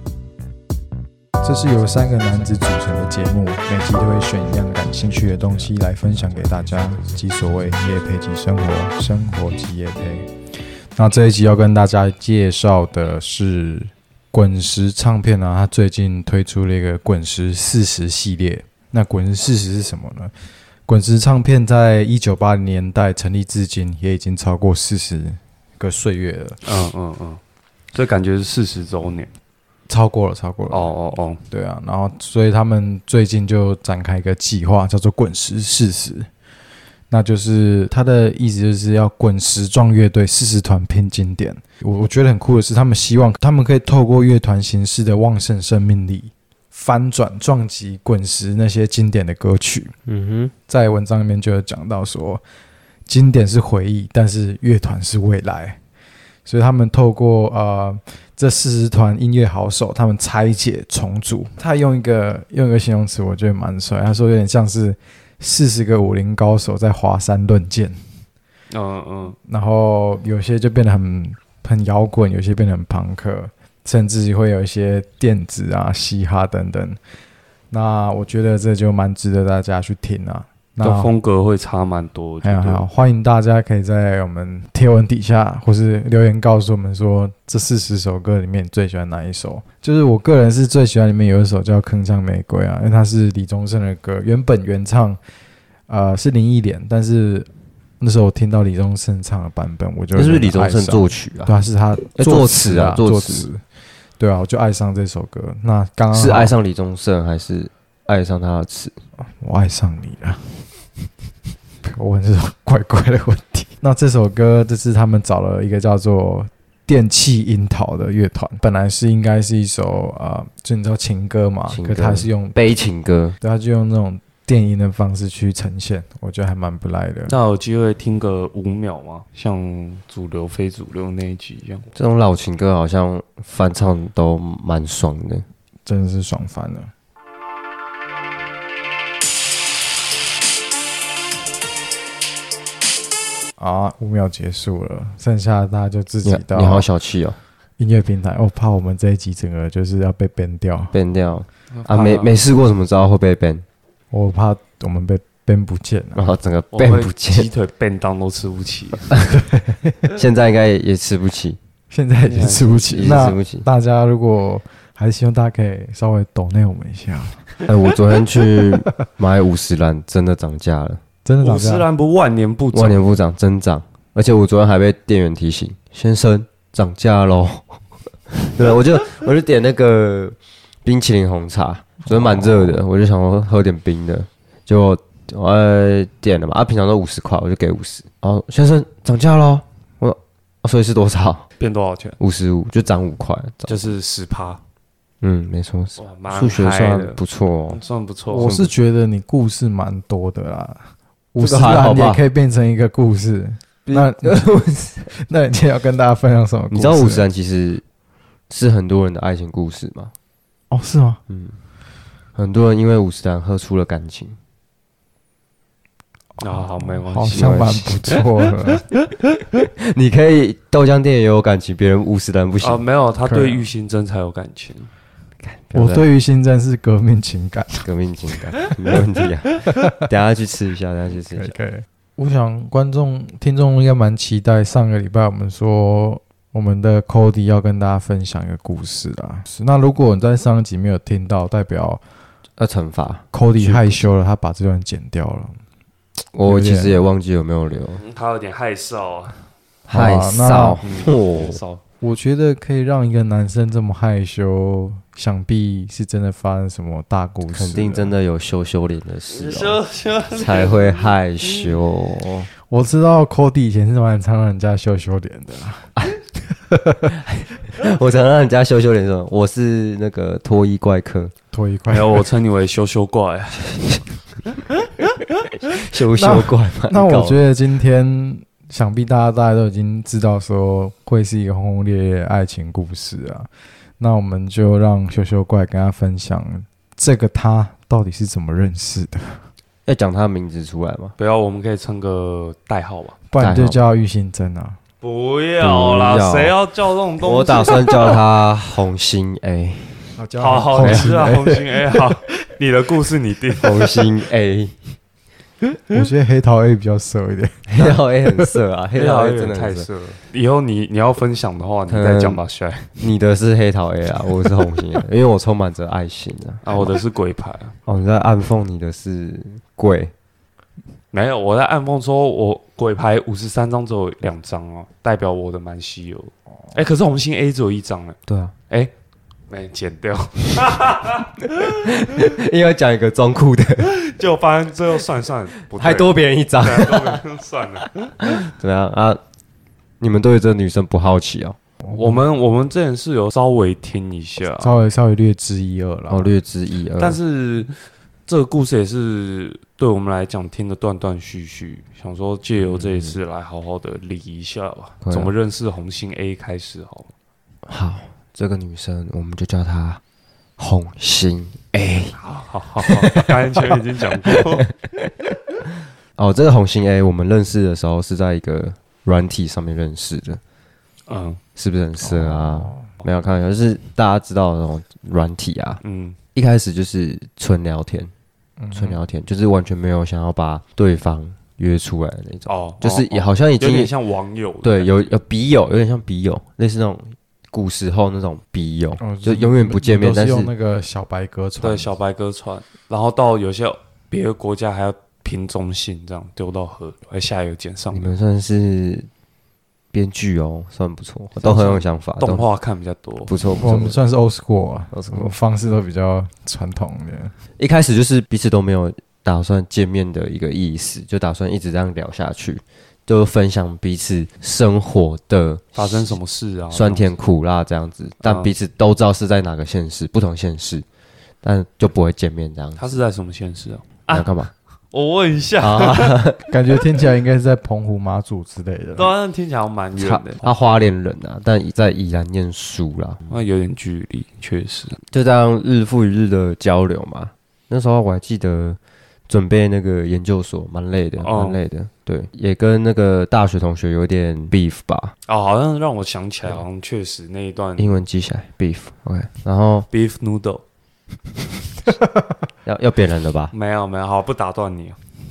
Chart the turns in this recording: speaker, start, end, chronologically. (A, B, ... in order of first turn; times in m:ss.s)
0:01.4-0:10.3 A
0:11.0-0:20.3 A
0:20.9-0:26.6 A
0:26.6-0:27.4 B
0:27.9-0:29.3 B
0:29.9-0:30.9 A
0:30.7-0:31.4 B
0:31.5-0:36.3 A
0:37.1-0:49.9 A
0:50.0-0:50.5 C
0:50.7-0:52.4 A
0:53.1-0:55.8 A
0:56.4-1:08.0 A
1:08.7-1:09.4 B
1:09.4-1:17.0 A
1:17.7-1:21.1 A
1:20.8-1:22.8 B
1:22.4-1:35.2 A
1:35.9-1:37.5 A
1:38.0-1:43.6 A
1:40.1-1:41.5 C
1:42.1-1:43.5 C
1:44.2-1:46.5 A
1:46.1-1:48.9 C
1:49.2-1:50.6 A
1:51.8-2:02.6 A
2:01.7-2:03.4 C
2:03.4-2:07.4 A
2:07.3-2:11.9 B
2:11.9-2:15.4 C
2:15.8-2:16.9 A
2:23.6-2:26.9 A
2:26.2-2:27.4 C
2:27.8-2:30.9 A
2:30.9-2:33.6 C
2:31.7-2:32.3 B
2:34.1-2:36.3 A
2:36.1-2:37.5 C
2:36.7-2:39.1 B
2:39.3-2:40.1 A
2:40.1-2:41.6 C
2:41.9-2:47.5 A
2:42.3-2:42.9 B
2:42.9-2:43.6 C
2:47.6-2:51.0 C
2:51.2-2:51.9 A
2:51.4-2:53.0 B
2:52.7-3:11.4 C
3:02.1-3:02.8 A
3:11.6-3:12.2 B
3:12.2-3:13.9 C
3:13.7-3:14.6 B
3:15.2-3:17.8 C
3:16.0-3:18.7 B
3:18.3-3:20.8 A
3:21.3-3:24.5 A
3:21.4-3:22.2 C
3:23.8-3:25.1 C
3:25.1-3:27.2 A
3:26.7-3:27.8 C
3:28.5-3:30.1 C
3:30.7-3:31.2 A
3:31.3-3:31.6 C
3:32.3-3:34.4 C
3:36.4-3:38.9 A
3:36.4-3:38.2 B
3:37.3-3:38.1 C
3:39.6-3:42.8 C
3:42.6-3:44.9 B
3:43.2-3:43.7 A
3:45.4-3:46.0 C
3:45.7-3:47.9 A
3:47.8-3:51.5 C
3:48.6-3:49.0 A
3:49.7-3:50.0 A
3:51.2-4:02.0 A
4:02.6-4:04.1 C
4:03.3-4:05.6 A
4:06.3-4:08.0 C
4:06.4-4:07.0 A
4:08.0-4:09.4 B
4:09.9-4:11.6 C
4:09.9-4:10.8 A
4:10.8-4:11.8 B
4:12.0-4:18.1 A
4:17.5-4:22.5 C
4:19.3-4:21.8 B
4:22.7-4:27.2 A
4:27.1-4:31.3 C
4:31.5-4:32.2 A
4:31.9-4:34.0 B
4:35.5-4:37.4 C
4:36.1-4:43.5 A
4:44.0-4:49.4 A
4:49.8-4:51.1 C
4:51.2-4:53.2 B
4:53.3-4:54.8 A
4:53.4-4:53.8 C
4:55.0-4:58.2 B
4:55.6-4:56.5 C
4:57.2-5:00.1 C
5:00.2-5:02.1 A
5:00.4-5:03.9 B
5:00.7-5:01.1 C
5:03.6-5:04.8 C
5:05.9-5:07.9 A
5:07.7-5:09.9 C
5:08.9-5:12.9 B
5:11.9-5:12.4 C
5:13.0-5:17.0 C
5:16.6-5:17.8 B
5:17.8-5:20.1 C
5:21.1-5:28.2 B
5:28.2-5:28.5 C
5:29.5-5:32.1 B
5:31.6-5:33.9 C
5:33.8-5:38.3 B
5:35.7-5:37.2 C
5:37.8-5:39.2 C
5:40.0-5:41.6 C
5:41.8-5:42.2 A
5:41.9-5:44.8 B
5:44.6-5:46.3 A
5:46.1-5:47.2 C
5:47.0-5:47.7 B
5:48.3-5:57.1 B
5:52.7-5:53.2 C
5:55.0-5:55.3 C
5:57.6-6:00.0 C
6:00.6-6:02.2 C
6:02.2-6:04.6 B
6:02.8-6:05.3 C
6:06.2-6:10.4 C
6:11.1-6:11.4 B
6:11.6-6:15.8 C
6:12.0-6:12.9 A
6:15.8-6:16.2 B
6:16.3-6:18.1 C
6:18.6-6:19.0 A
6:18.7-6:23.9 C
6:22.5-6:25.1 B
6:24.6-6:30.5 C
6:29.0-6:31.9 A
6:31.6-6:38.1 B
6:37.9-6:39.1 C
6:39.9-6:42.4 C
6:41.4-6:43.4 B
6:43.3-6:44.0 C
6:43.5-6:47.3 A
6:44.9-6:45.3 C
6:47.6-6:56.2 C
6:55.7-6:57.1 B
6:56.7-7:00.8 C
6:58.2-6:58.5 B
7:01.4-7:03.0 C
7:02.8-7:04.3 B
7:04.1-7:04.5 C
7:04.9-7:06.2 B
7:05.6-7:06.4 C
7:06.5-7:09.1 A
7:09.0-7:10.5 B
7:10.0-7:13.2 C
7:13.3-7:15.0 B
7:15.1-7:25.1 C
7:21.2-7:21.6 B
7:25.3-7:28.0 B
7:27.8-7:29.9 C
7:29.9-7:30.6 B
7:32.6-7:33.5 C
7:33.5-7:35.0 B